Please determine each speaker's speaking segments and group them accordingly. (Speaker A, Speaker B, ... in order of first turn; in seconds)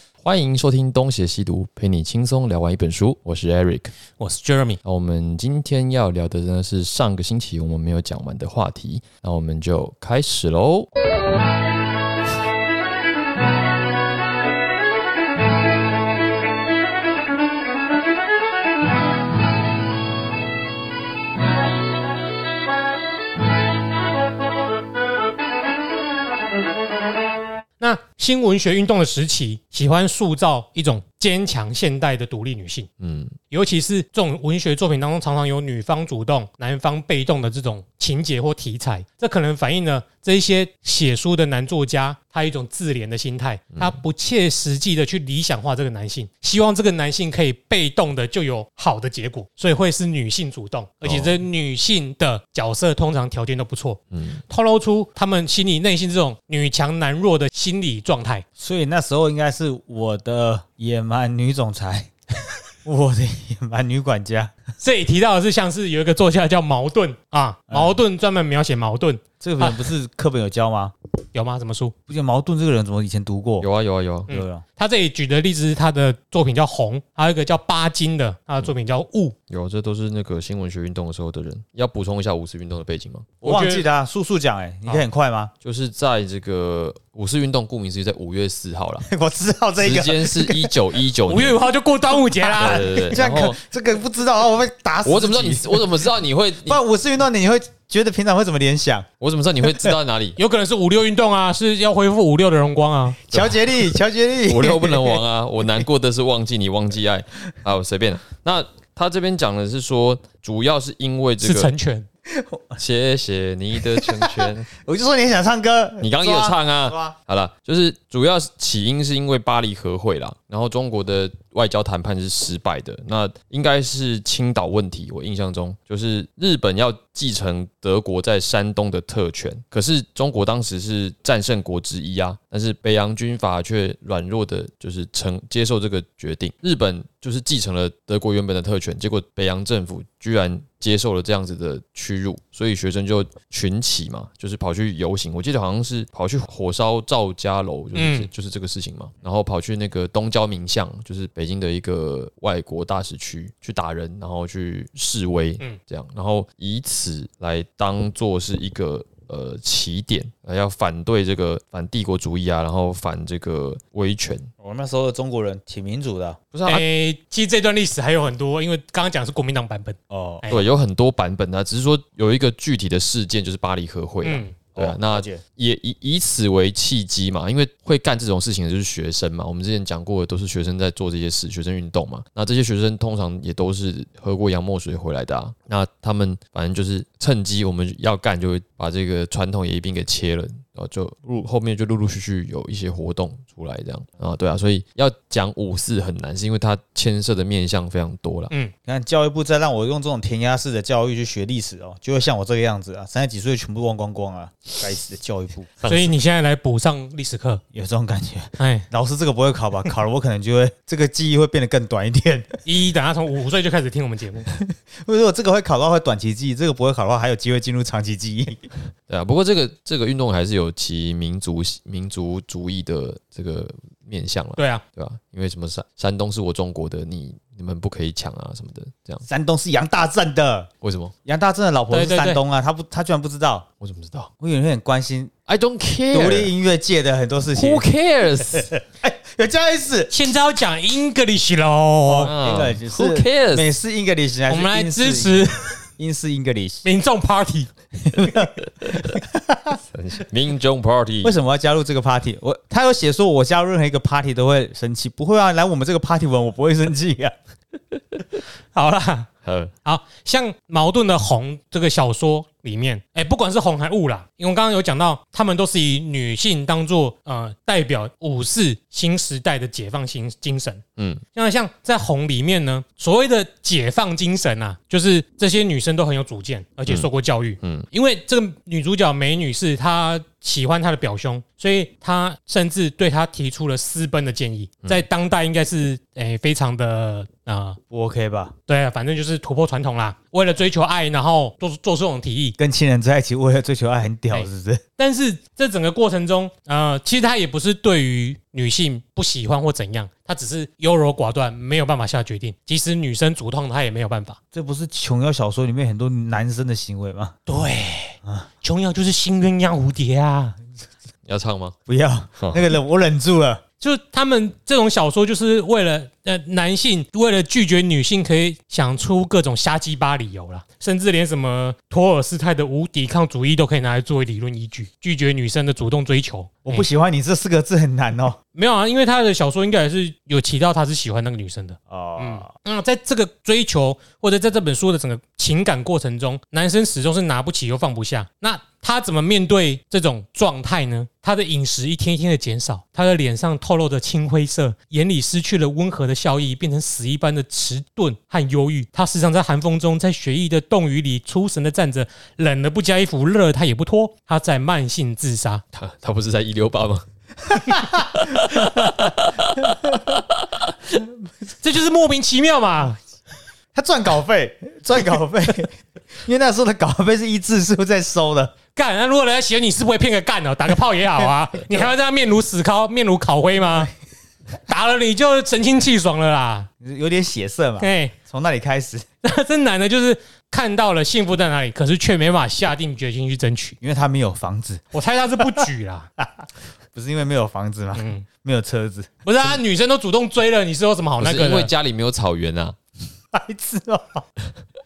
Speaker A: 0.2-3.9, 4.8-10.9, 33.0-33.3, 51.0-51.4, 54.1-54.4, 73.6-74.3, 79.5-83.3, 85.6-89.1, 89.8-91.6, 92.6-93.6, 95.0-96.8, 99.2-100.4, 103.3-103.7, 104.5-111.7, 112.8-114.7, 116.0-164.5, 166.5-166.8, 170.5-198.5, 219.1-229.2, 230.8-231.1, 233.8-234.3, 235.5-236.5, 237.5-238.7, 242.2-243.7, 249.9-251.3, 259.4-259.7, 271.0-271.2, 277.6-277.9, 311.2-311.8, 312.4-312.6, 355.7-357.1, 357.7-360.7, 391.2-392.8
Speaker B: 4.2-4.8, 27.8-32.9, 33.5-58.4, 64.8-69.9, 71.3-71.9, 74.3-79.3, 83.4-83.8, 91.3-93.1, 100.4-103.2, 111.4-112.1, 147.9-148.3, 166.7-170.6, 174.2-174.6, 205.8-207.6, 208.6-208.9, 212.7-214.5, 224.6-224.8, 231.9-232.4, 240.1-242.3, 244.5-245.8, 246.8-247.7, 258.7-259.3, 259.9-270.8, 271.4-287.8, 288.7-292.6, 294.3-304.4, 307.5-310.6, 313.8-326.9, 328.6-355.6, 361.6-363.0, 368.8-373.9, 374.7-376.7, 377.8-378.1, 379.2-383.8, 384.9-386.1, 387.9-388.2, 389.2-391.7
Speaker C: 58.6-62.1, 62.9-64.5, 67.7-68.0, 69.4-70.9, 72.1-73.7, 74.3-74.6, 83.4-85.5, 89.0-90.7, 92.3-95.8, 96.7-99.1, 103.3-105.2, 112.3-112.8, 113.9-117.2, 164.6-166.4, 170.1-170.4, 174.8-175.4, 198.8-205.8, 207.7-212.6, 214.6-218.7, 229.2-230.7, 231.2-233.7, 234.4-235.3, 236.1-237.8, 238.5-240.1, 242.0-246.8, 248.0-249.8, 251.2-257.3, 287.9-288.5, 292.6-294.8, 304.5-307.4, 311.9-313.6, 326.6-328.4, 331.9-332.5, 357.5-359.0, 363.7-368.5, 376.8-379.1, 383.8-384.8, 386.9-389.1, 393.3-394.2